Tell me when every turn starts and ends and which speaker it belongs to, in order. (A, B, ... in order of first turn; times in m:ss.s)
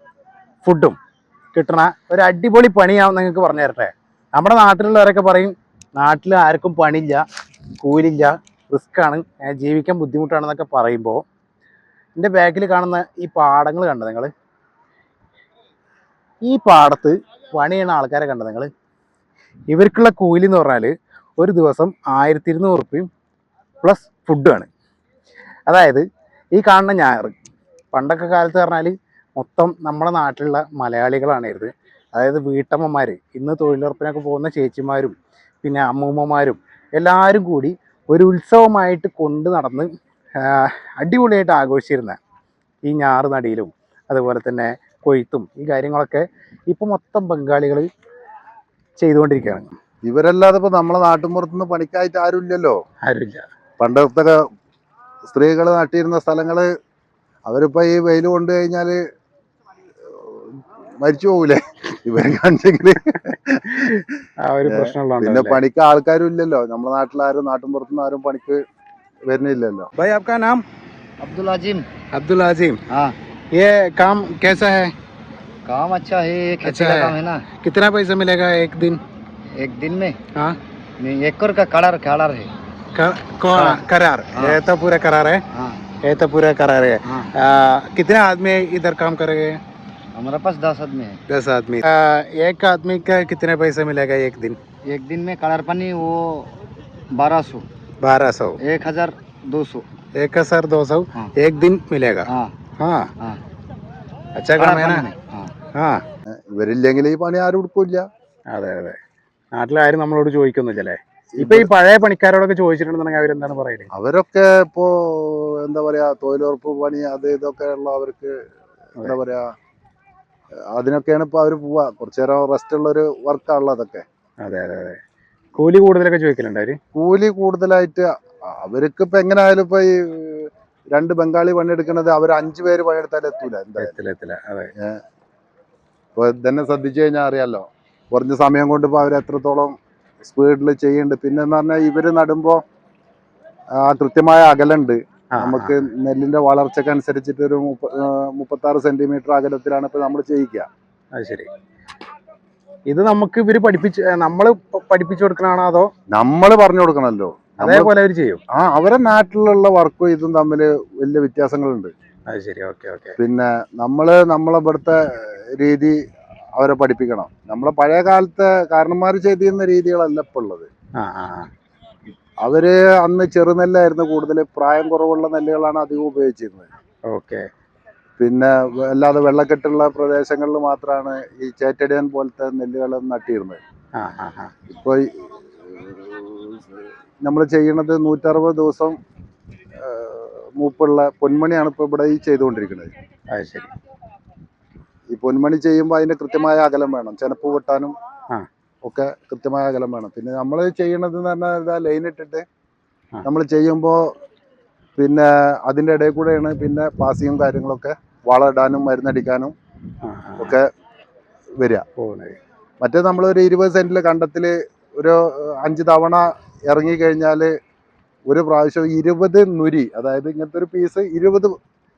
0:00.6-0:01.0 A
0:01.5-0:07.2 A
0:07.8-0:11.2 A
0:12.2-0:14.3 A
0:16.5-0:18.7 A
0:19.7-0:23.1 A
0:23.8-0:24.7 A
0:25.7-0:26.0 A
0:26.6-0:27.4 A
0:27.9-0:39.9 A
0:40.4-0:42.2 A
0:42.8-0:47.9 A
0:49.0-0:49.7 A
0:50.0-0:52.8 B
0:53.0-0:53.4 A
0:53.8-0:54.4 B
0:55.3-0:56.7 B
0:57.5-0:59.0 B
1:00.1-1:08.6 B
1:03.7-1:05.6 A
1:09.3-1:09.9 B
1:10.0-1:10.6 A
1:11.2-1:11.9 C
1:12.1-1:12.8 A
1:12.9-1:13.1 C
1:13.5-1:14.9 A
1:15.7-1:17.4 C
1:16.6-1:19.0 A
1:19.6-1:20.2 C
1:21.0-1:22.5 C
1:22.9-1:25.4 A
1:23.6-1:23.8 C
1:25.5-1:25.8 C
1:26.0-1:29.6 A
1:30.1-1:31.2 C
1:31.3-1:34.6 A
1:34.9-1:36.5 C
1:37.1-1:37.7 C
1:38.0-1:38.6 A
1:38.6-1:39.9 C
1:40.1-1:43.1 A
1:42.3-1:42.5 C
1:44.4-1:45.0 A
1:44.6-1:45.5 C
1:45.8-1:46.0 A
1:46.3-1:48.0 B
1:48.5-1:49.0 A
1:49.6-1:53.9 A
1:51.4-1:51.7 B
1:53.9-1:58.4 B
1:59.0-1:59.4 B
2:00.7-2:04.0 B
2:04.4-2:05.0 A
2:05.6-2:06.8 A
2:06.9-2:13.9 B
2:13.8-2:14.7 A
2:16.2-2:22.6 B
2:23.8-2:30.7 B
2:25.3-2:25.7 A
2:31.2-2:31.5 A
2:32.9-2:35.9 A
2:36.1-2:37.9 B
2:37.6-2:38.4 A
2:38.5-2:41.9 B
2:42.3-2:43.2 A
2:43.2-2:46.0 B
2:46.6-2:50.7 B
2:51.0-2:51.5 A
2:52.4-2:56.7 B
2:57.1-2:57.5 A
2:58.2-3:03.6 B
3:04.0-3:04.5 A
3:04.7-3:09.0 B
3:09.8-3:12.9 B
3:13.3-3:13.7 A
3:15.1-3:17.9 B
3:18.8-3:22.4 B
3:23.2-3:24.1 B
3:25.0-3:29.5 B
3:30.0-3:30.6 A
3:30.4-3:30.7 B
3:31.6-3:31.8 B
3:32.0-3:32.4 A
3:32.8-3:37.5 B
3:38.3-3:41.5 B